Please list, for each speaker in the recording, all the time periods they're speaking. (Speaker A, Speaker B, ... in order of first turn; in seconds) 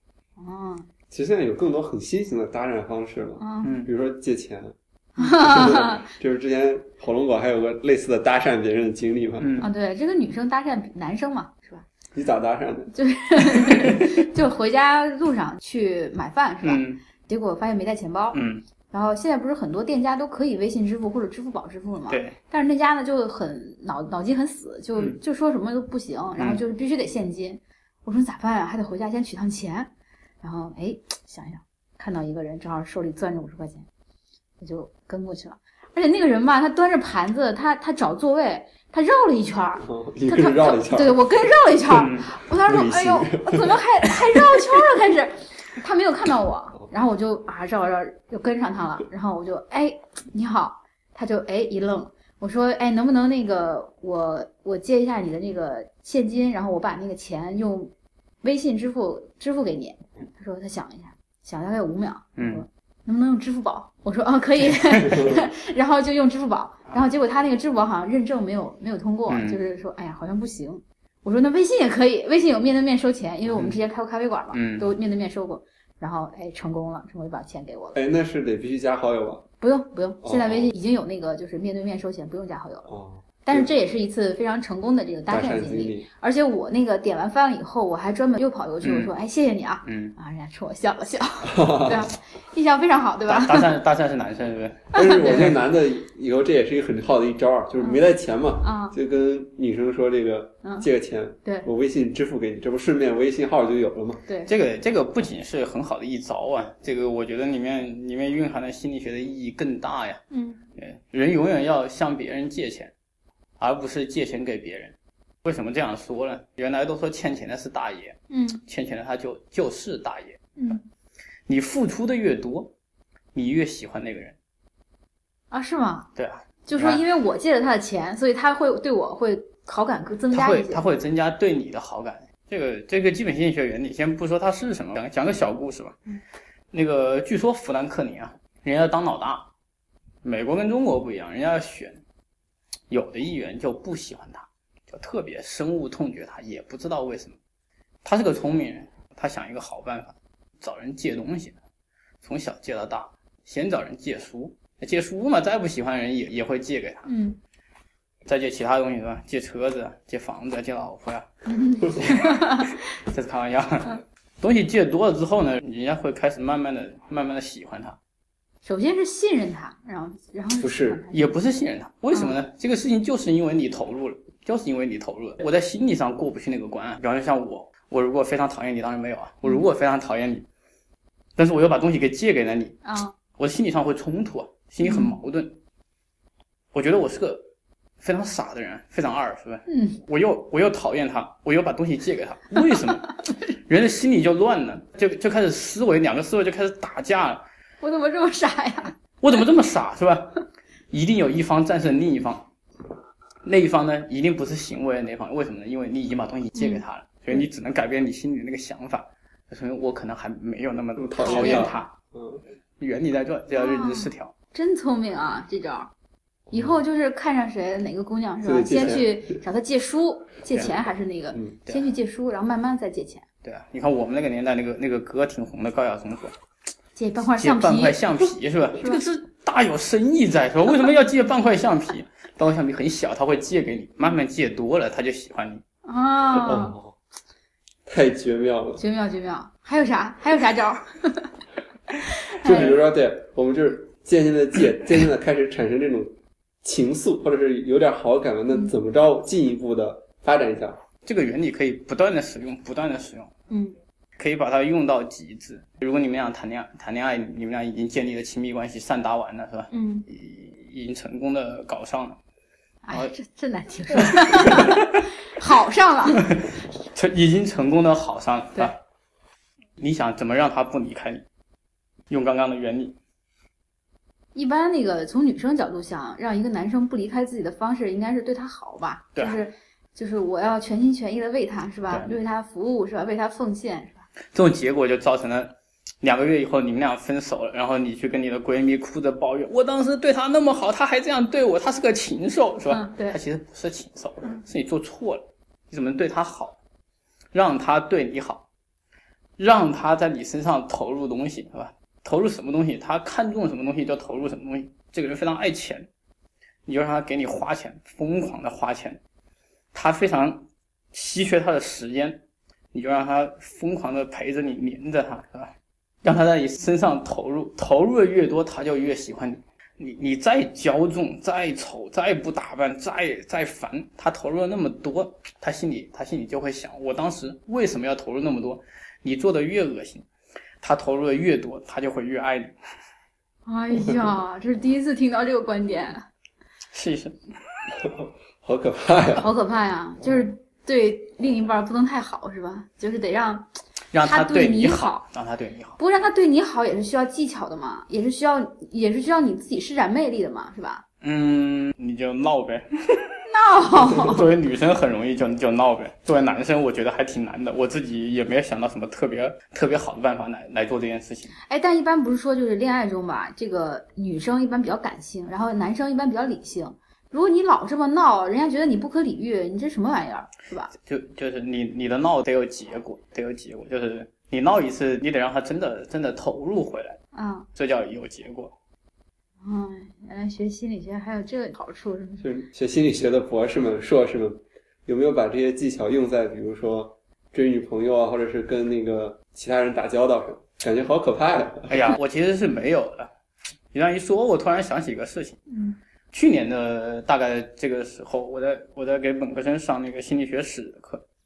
Speaker A: 0.4-0.9, 3.4-3.8, 5.2-6.1, 9.6-11.9, 12.9-29.9, 30.4-33.9, 34.6-57.9, 58.4-78.0, 79.6-82.9, 83.4-93.7, 94.9-95.4, 98.6-98.9, 100.6-100.9, 110.3-110.6, 118.3-118.6, 120.6-120.8, 125.5-126.1, 126.7-130.8, 157.1-157.4, 161.4-162.8, 168.6-171.4, 182.8-183.2, 184.8-185.2, 189.7-190.0, 197.8-198.9, 206.5-207.4, 211.2-211.8, 213.5-215.9, 216.5-223.2, 227.0-228.0, 235.8-236.8, 238.8-241.3, 242.3-242.7, 253.5-253.8, 259.7-260.0, 262.9-266.2, 274.4-284.1, 292.7-293.2, 333.5-336.1, 339.1-343.5, 344.0-345.0, 345.8-350.8, 353.3-354.3, 361.5-370.7, 377.1-377.5, 379.4-382.3, 395.5-395.8
Speaker B: 1.1-9.5, 12.1-12.9, 39.8-41.2, 42.6-43.8, 65.1-65.4, 77.9-79.4, 80.2-80.7, 82.9-83.7, 85.3-86.1, 91.4-92.1, 94.9-104.2, 170.6-171.0, 211.0-212.4, 218.4-219.4, 236.4-236.9, 237.9-238.8, 242.4-250.8, 337.8-339.3, 382.2-391.9
Speaker C: 3.6-3.9, 9.4-9.7, 16.6-17.0, 18.3-18.6, 22.1-22.4, 41.9-42.3, 62.4-62.6, 69.3-69.6, 74.5-74.9, 88.8-89.1, 89.8-90.1, 93.3-95.6, 104.5-110.2, 110.8-112.9, 113.6-120.4, 121.5-122.7, 123.3-124.4, 126.2-127.0, 130.3-136.0, 136.7-139.5, 140.2-142.0, 142.9-147.4, 148.0-151.6, 152.2-157.1, 158.2-161.3, 161.8-168.0, 171.1-180.4, 181.4-182.8, 183.4-185.6, 186.7-187.5, 188.0-197.4, 199.2-202.5, 203.4-211.9, 212.8-214.3, 223.4-226.3, 227.4-235.6, 242.5-242.8, 251.0-253.3, 254.2-262.2, 263.9-265.1, 266.1-268.8, 269.8-271.2, 272.1-273.0, 281.9-282.1, 284.3-296.6, 297.3-298.4, 299.4-305.9, 306.7-309.0, 309.7-312.2, 312.7-330.0, 330.6-332.5, 336.7-337.2, 343.9-345.8, 351.0-353.2, 353.8-361.3, 370.8-377.0, 377.6-378.5, 391.7-393.1, 393.7-395.4, 396.1-401.0